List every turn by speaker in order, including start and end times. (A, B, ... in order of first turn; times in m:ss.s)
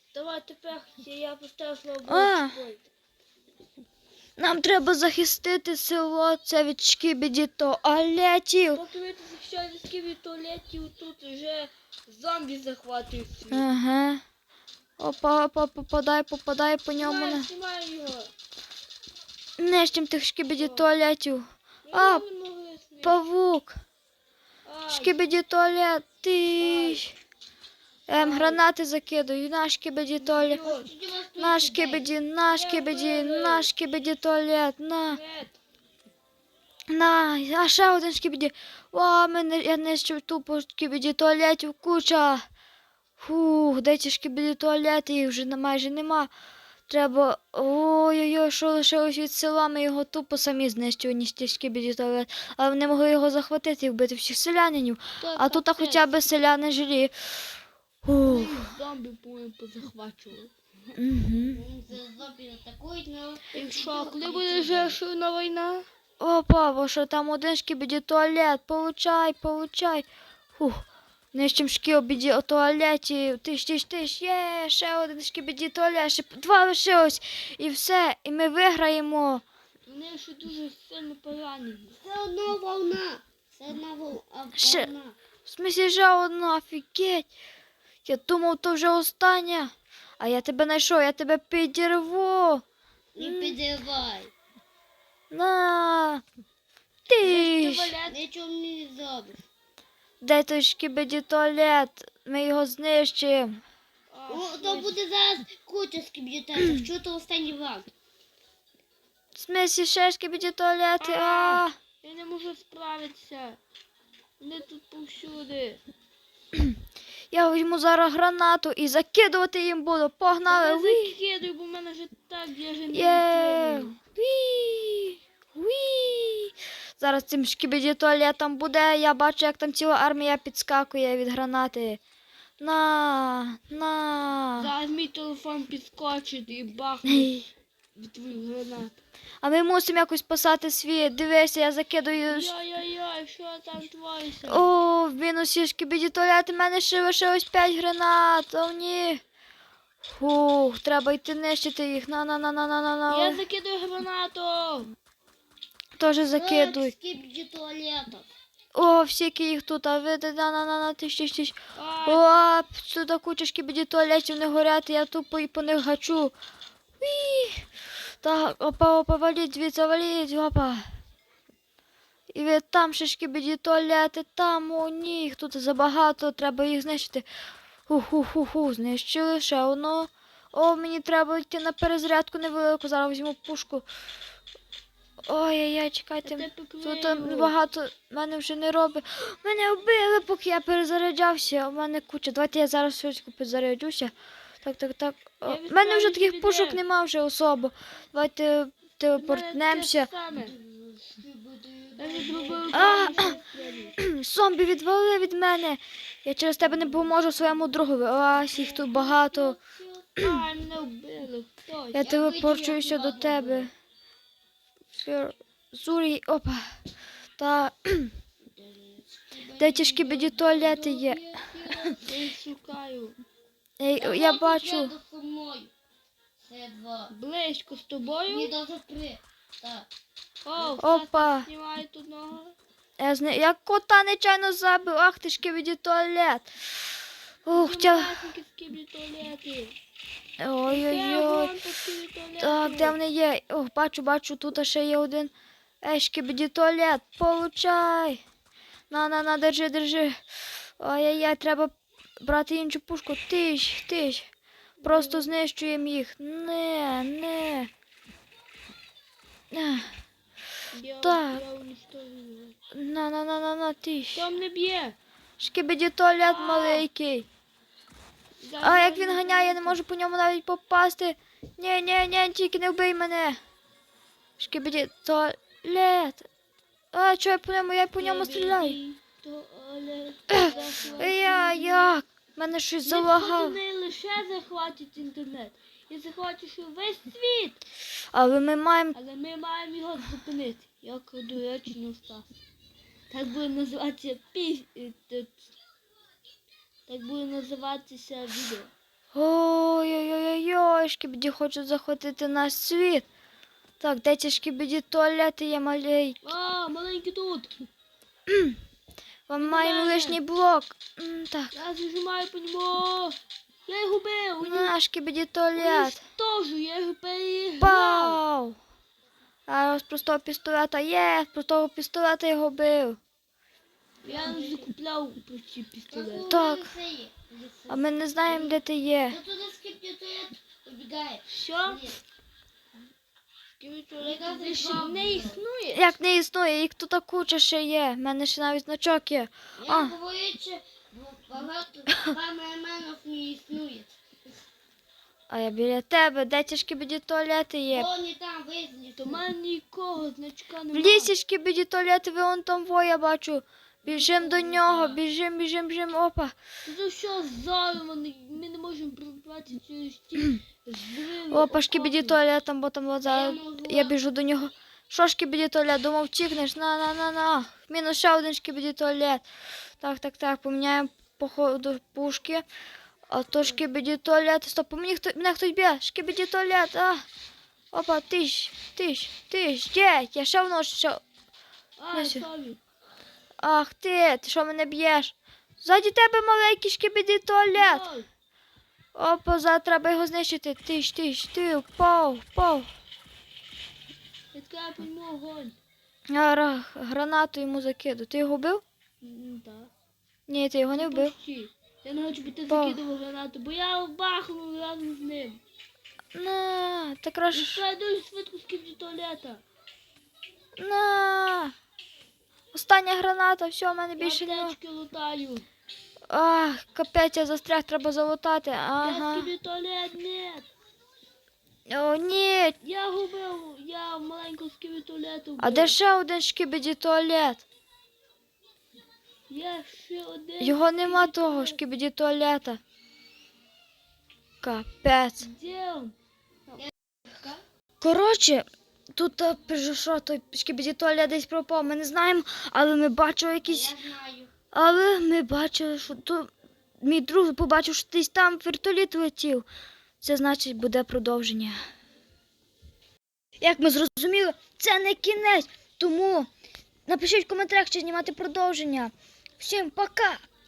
0:00.1-0:02.8 A
0:02.0-0:02.6 B
0:04.4-0:08.8 B
0:08.7-0:13.6 A
0:13.5-0:14.2 B
0:15.0-0:17.5 B
0:16.9-0:18.3 A
0:19.6-0:22.2 B
0:20.6-0:20.8 A
0:21.9-0:23.2 A
0:23.0-0:23.7 B
0:24.6-0:25.2 A
0:24.9-0:27.1 B
0:28.1-0:30.6 B
0:28.1-0:28.6 A
0:30.2-0:30.9 A
0:30.6-0:32.1 C
0:31.4-0:35.2 B
0:32.5-0:33.7 A
0:35.1-0:35.5 A
0:36.9-0:42.4 B
0:43.2-0:46.3 B
0:46.9-0:57.4 B
0:55.2-0:56.1 A
0:58.0-0:58.6 B
0:58.2-1:00.5 A
1:00.9-1:01.6 B
1:01.5-1:05.0 C
1:03.5-1:05.8 A
1:06.2-1:10.0 B
1:10.6-1:19.4 B
1:19.9-1:22.0 A
1:21.9-1:25.2 C
1:24.6-1:24.9 B
1:25.4-1:27.3 B
1:28.0-1:32.6 B
1:33.2-1:34.3 C
1:33.2-1:33.6 B
1:35.3-1:36.2 B
1:37.1-1:38.0 B
1:37.2-1:38.2 A
1:38.0-1:39.4 C
1:40.2-1:43.6 B
1:44.1-1:45.0 A
1:44.3-1:47.9 C
1:49.3-1:51.7 B
1:51.0-1:53.6 A
1:54.4-1:55.8 A
1:57.3-2:01.2 B
2:00.4-2:03.9 A
2:02.9-2:12.0 B
2:12.6-2:14.7 B
2:14.6-2:17.4 A
2:17.0-2:17.5 B
2:17.9-2:18.9 A
2:19.4-2:22.5 B
2:22.3-2:24.7 A
2:24.4-2:29.2 B
2:30.0-2:33.4 B
2:33.1-2:34.9 A
2:36.0-2:36.9 B
2:36.3-2:38.3 C
2:38.7-2:46.3 B
2:41.7-2:42.4 A
2:47.0-2:47.7 B
2:48.2-2:50.8 B
2:52.3-2:57.2 B
2:57.9-3:03.8 B
3:05.2-3:20.1 B
3:06.2-3:07.6 A
3:15.4-3:16.8 A
3:19.2-3:20.6 A
3:20.3-3:23.9 C
3:22.0-3:24.0 A
3:22.7-3:23.3 B
3:24.0-3:29.6 B
3:26.6-3:27.2 C
3:28.5-3:28.9 A
3:28.6-3:30.1 C
3:30.2-3:32.0 A
3:30.2-3:30.4 B
3:31.9-3:33.7 B
3:32.0-3:33.7 C
3:34.9-3:36.7 B
3:37.4-3:38.1 B
3:38.5-3:42.0 C
3:39.6-3:42.0 B
3:42.0-3:43.2 A
3:43.8-3:44.9 B
3:44.0-3:45.7 C
3:46.4-3:47.1 C
3:47.1-3:48.5 A
3:48.2-3:49.9 C
3:50.4-3:52.5 A
3:50.8-3:51.5 B
3:53.0-3:56.5 B
3:57.4-3:58.3 B
3:57.5-3:59.8 A
4:00.4-4:01.6 B
4:00.7-4:03.0 A
4:02.4-4:08.2 B
4:08.9-4:10.2 B
4:10.8-4:14.3 B
4:14.8-4:15.3 A
4:14.8-4:17.7 B
4:19.5-4:19.9 B
4:20.7-4:22.6 A
4:21.0-4:21.4 B
4:22.7-4:24.3 B
4:24.1-4:25.0 A
4:25.4-4:27.3 B
4:26.2-4:26.9 A
4:28.4-4:29.8 A
4:28.6-4:33.4 B
4:34.4-4:36.3 B
4:36.9-4:38.8 B
4:38.0-4:41.9 A
4:40.3-4:43.6 B
4:40.4-4:41.2 C
4:42.8-4:47.6 A
4:48.1-4:49.0 B
4:48.9-4:52.3 A
4:53.1-4:55.4 A
4:56.9-4:58.7 A
4:59.1-5:03.0 B
5:03.8-5:06.2 B
5:06.2-5:07.5 A
5:08.3-5:08.6 B
5:09.3-5:11.5 B
5:09.4-5:10.2 A
5:11.5-5:14.7 A
5:14.4-5:16.0 B
5:15.6-5:18.2 A
5:17.6-5:18.6 B
5:19.5-5:23.0 B
5:24.0-5:24.7 C
5:24.0-5:26.3 A
5:25.9-5:32.0 C
5:26.2-5:26.7 B
5:27.7-5:29.2 B
5:31.3-5:31.9 A
5:33.6-5:36.0 A
5:34.0-5:35.4 C
5:35.7-5:39.9 B
5:39.6-5:44.0 C
5:45.3-5:47.9 B
5:47.7-5:49.2 C
5:49.0-5:51.1 A
5:50.7-5:56.3 B
5:53.8-5:54.9 C
5:56.6-6:02.2 A
6:01.3-6:09.2 B
6:03.0-6:04.0 C
6:09.8-6:12.4 B
6:13.1-6:17.0 B
6:17.7-6:21.0 B
6:21.8-6:22.6 A
6:21.9-6:22.3 B
6:23.4-6:27.8 B
6:27.5-6:28.1 A
6:28.9-6:32.7 B
6:34.3-6:35.6 A
6:36.1-6:38.6 B
6:39.0-6:39.7 A
6:40.3-6:41.1 B
6:40.7-6:45.4 A
6:42.5-6:42.8 B
6:46.1-6:47.6 B
6:47.3-6:49.4 A
6:50.6-6:51.5 B
6:52.5-6:54.6 B
6:54.0-6:55.4 A
6:56.1-6:59.3 B
6:58.8-7:00.5 A
7:01.7-7:02.6 B
7:02.6-7:05.8 A
7:05.4-7:07.4 B
7:09.3-7:11.6 A
7:10.4-7:12.6 B
7:14.4-7:15.3 B
7:15.2-7:15.9 A
7:16.5-7:17.4 C
7:17.8-7:23.7 B
7:23.4-7:24.3 C
7:24.5-7:26.3 B
7:26.8-7:29.4 B
7:30.0-7:31.6 B
7:33.4-7:36.3 B
7:36.9-7:40.2 B